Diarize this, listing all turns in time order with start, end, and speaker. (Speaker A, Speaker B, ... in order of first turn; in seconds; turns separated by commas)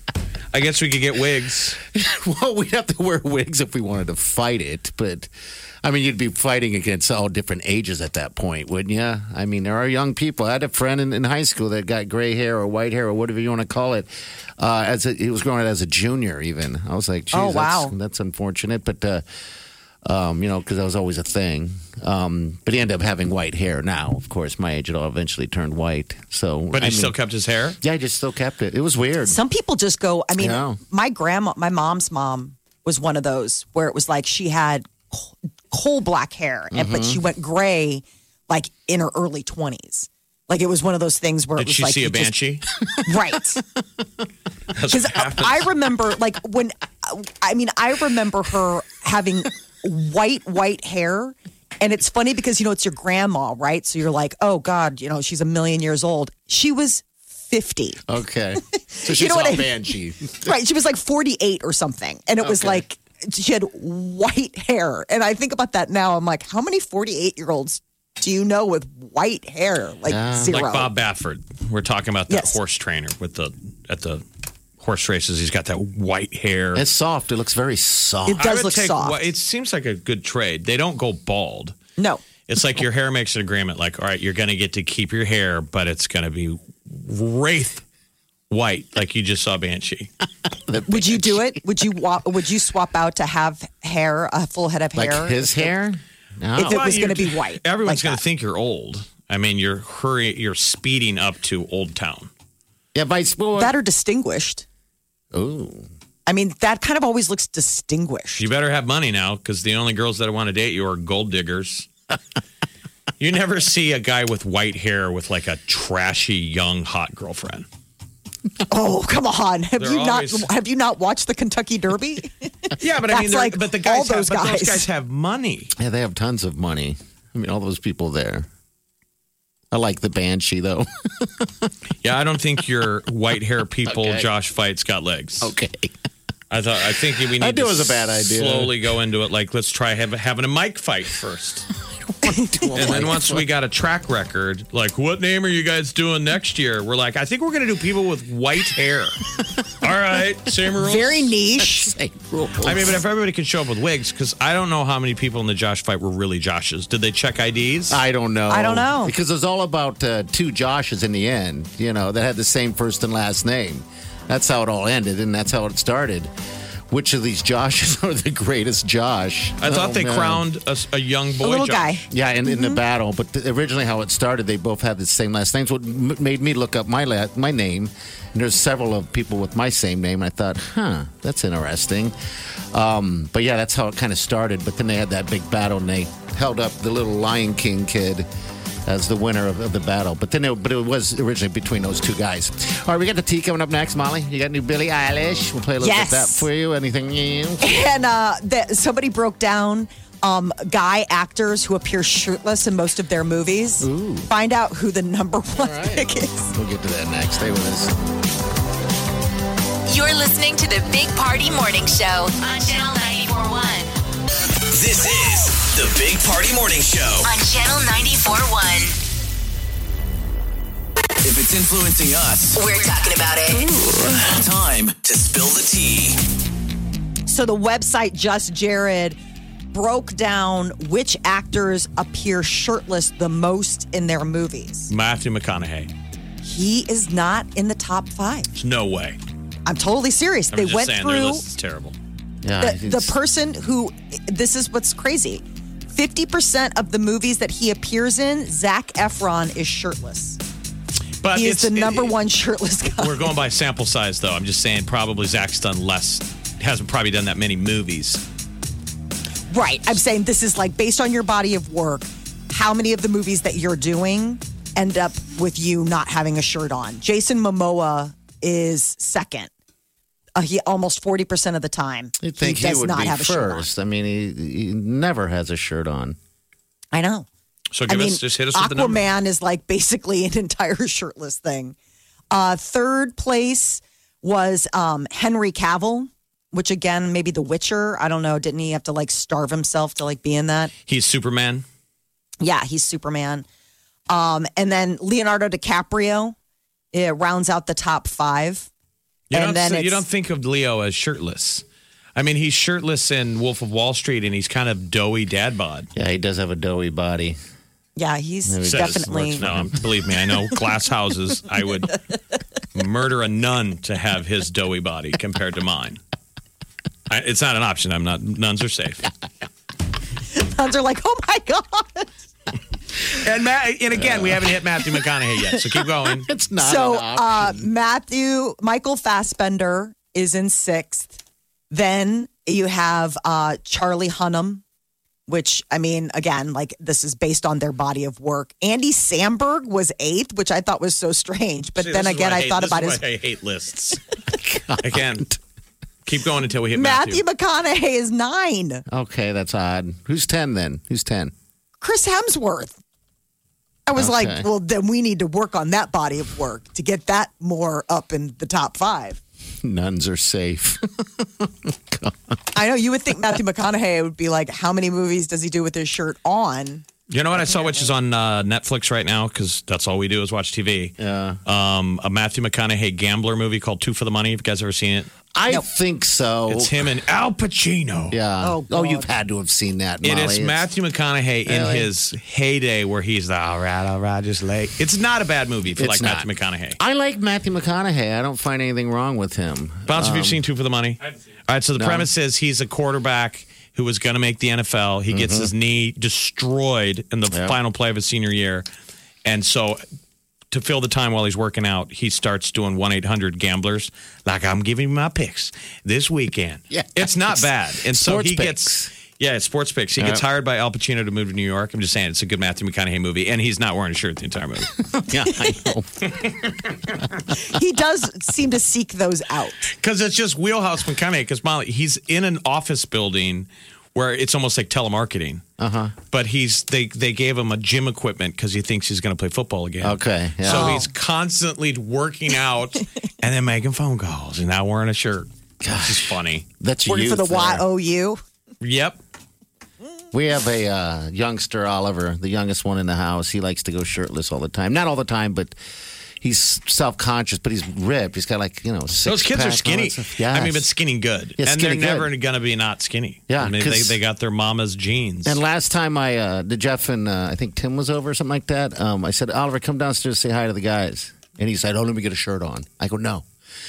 Speaker A: 0.5-1.8, Speaker B: 1.9-5.3, Speaker B: 5.8-19.2, Speaker C: 17.3-17.9, Speaker B: 20.1-27.1, Speaker A: 26.7-27.8, Speaker B: 27.8-29.4, Speaker C: 29.3-42.3, Speaker B: 30.4-30.8, Speaker B: 36.7-37.2, Speaker A: 41.6-42.7, Speaker C: 43.0-43.6, Speaker A: 44.8-45.7, Speaker C: 44.9-58.0, Speaker B: 58.1-60.5, Speaker C: 58.7-59.7, Speaker C: 60.4-70.9, Speaker B: 62.4-62.8, Speaker B: 70.1-70.6, Speaker A: 70.5-74.2, Speaker C: 72.3-72.6, Speaker A: 74.8-76.8, Speaker B: 76.8-78.5, Speaker C: 78.3-79.2, Speaker A: 78.4-81.8, Speaker C: 82.0-82.2, Speaker A: 82.5-87.8, Speaker A: 88.5-90.1, Speaker B: 90.5-91.6, Speaker C: 90.9-95.7, Speaker B: 95.0-96.9, Speaker C: 96.6-98.2, Speaker A: 96.6-102.3, Speaker B: 102.9-103.7, Speaker C: 103.6-104.7, Speaker B: 105.3-105.9, Speaker C: 106.3-108.4, Speaker A: 108.4-111.9, Speaker A: 113.2-117.7, Speaker C: 118.7-124.9, Speaker A: 119.8-120.5, Speaker A: 122.8-125.7, Speaker B: 125.8-128.5, Speaker B: 129.7-131.7, Speaker A: 132.0-135.5, Speaker B: 133.9-134.3, Speaker B: 135.4-135.9, Speaker A: 136.5-141.7, Speaker B: 137.2-138.8, Speaker B: 142.2-143.5, Speaker C: 142.3-143.1, Speaker A: 142.8-149.2, Speaker A: 149.8-151.3, Speaker C: 150.8-151.9, Speaker B: 151.6-153.0, Speaker A: 152.6-158.0, Speaker B: 157.9-166.3, Speaker C: 158.5-159.1, Speaker B: 166.9-170.4, Speaker A: 169.6-172.1, Speaker C: 171.4-172.8, Speaker B: 172.1-182.2, Speaker B: 182.7-188.3, Speaker B: 188.9-197.7, Speaker C: 195.8-196.5, Speaker C: 197.6-206.5, Speaker B: 203.8-204.3, Speaker B: 205.6-207.9, Speaker D: 209.9-213.9, Speaker E: 214.7-217.3, Speaker D: 217.2-219.0, Speaker E: 221.2-222.6, Speaker D: 222.6-223.7, Speaker E: 224.2-226.2, Speaker C: 227.3-229.2, Speaker C: 229.7-234.9, Speaker A: 234.9-235.9, Speaker C: 236.4-238.5, Speaker A: 238.6-239.2, Speaker C: 239.7-241.4, Speaker A: 240.5-242.0, Speaker B: 242.4-243.2, Speaker C: 242.6-250.4, Speaker A: 251.2-252.2, Speaker C: 251.3-253.3, Speaker A: 253.0-258.2, Speaker C: 259.5-269.5, Speaker C: 270.4-273.7, Speaker B: 272.2-276.2, Speaker C: 276.9-277.3, Speaker A: 277.7-279.0, Speaker C: 277.9-281.8, Speaker C: 282.3-290.7, Speaker A: 290.9-291.6, Speaker C: 292.4-293.4, Speaker C: 294.1-296.4, Speaker C: 296.9-298.7, Speaker A: 299.3-301.6, Speaker C: 299.3-300.0, Speaker A: 302.1-305.9, Speaker B: 305.9-307.4, Speaker C: 308.0-309.4, Speaker B: 308.5-309.9, Speaker A: 308.7-312.0, Speaker A: 312.7-316.0, Speaker A: 317.1-319.1, Speaker C: 320.3-322.1, Speaker A: 323.1-326.3, Speaker B: 324.0-324.5, Speaker B: 326.0-327.7, Speaker C: 326.6-331.2, Speaker C: 331.7-334.6, Speaker C: 335.3-343.0, Speaker A: 341.8-344.0, Speaker B: 344.3-345.4, Speaker A: 344.8-345.3, Speaker A: 346.1-347.2, Speaker C: 346.7-348.8, Speaker B: 348.9-351.3, Speaker C: 351.8-352.8, Speaker C: 353.9-359.2, Speaker B: 354.0-354.5, Speaker B: 359.6-362.3, Speaker C: 362.6-366.9, Speaker A: 367.1-375.1, Speaker C: 367.4-367.9, Speaker B: 371.0-371.4, Speaker B: 375.3-376.8, Speaker A: 376.5-378.2, Speaker B: 378.1-380.6, Speaker C: 378.4-379.1, Speaker A: 380.0-386.8, Speaker B: 381.5-381.9, Speaker B: 385.8-390.4, Speaker A: 389.9-398.7, Speaker B: 391.8-392.1, Speaker B: 395.1-395.5, Speaker B: 397.3-397.6, Speaker A: 399.2-399.8, Speaker A: 400.5-414.7, Speaker B: 406.7-408.9, Speaker B: 410.0-410.2, Speaker B: 415.0-416.3, Speaker C: 417.4-419.6, Speaker A: 419.8-425.4, Speaker B: 425.6-425.9, Speaker A: 426.1-436.4, Speaker B: 429.8-430.9, Speaker C: 430.5-430.9, Speaker B: 435.6-437.6, Speaker C: 436.9-438.2, Speaker A: 438.6-439.0, Speaker B: 440.1-445.6, Speaker B: 446.2-450.7, Speaker A: 449.0-455.4, Speaker B: 451.4-452.1, Speaker B: 453.3-454.0, Speaker B: 455.2-463.2